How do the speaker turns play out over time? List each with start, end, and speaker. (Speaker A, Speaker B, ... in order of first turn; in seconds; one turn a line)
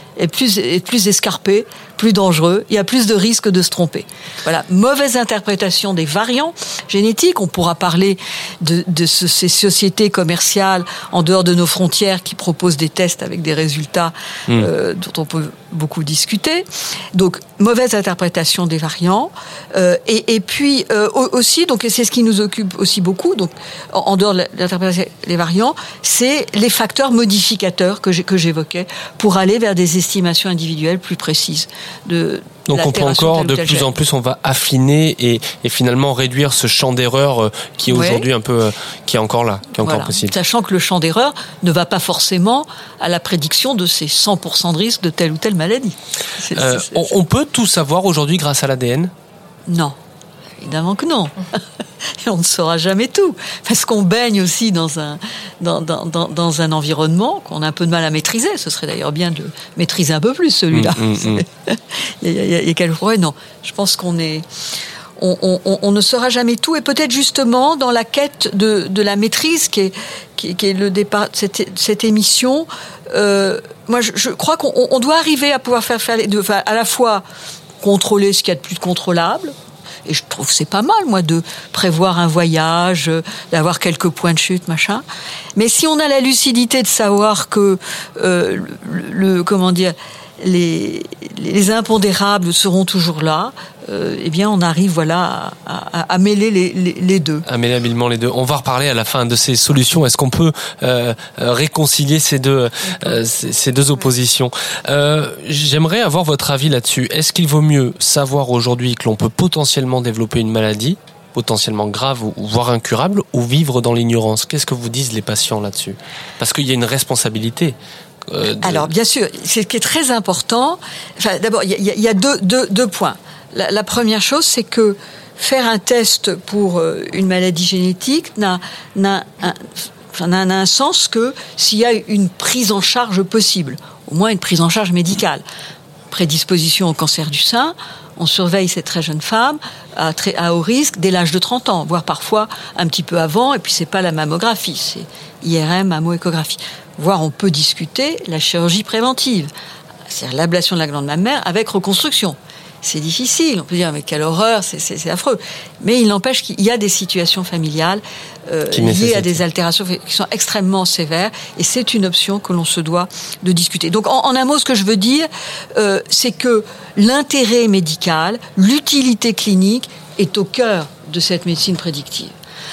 Speaker A: 0.2-33.9
Speaker B: 32.7-40.3
Speaker A: 37.9-38.3
Speaker A: 39.8-47.1
Speaker B: 46.5-49.1
Speaker A: 49.7-50.0
Speaker A: 50.6-51.6
Speaker A: 52.2-64.5
Speaker B: 60.7-61.4
Speaker A: 65.2-77.2
Speaker A: 77.8-79.5
Speaker A: 80.1-85.0
Speaker A: 85.6-97.5
Speaker B: 97.5-117.8
Speaker B: 118.3-118.9
Speaker A: 118.6-135.4
Speaker A: 136.1-149.5
Speaker A: 150.1-172.3
Speaker B: 158.7-159.4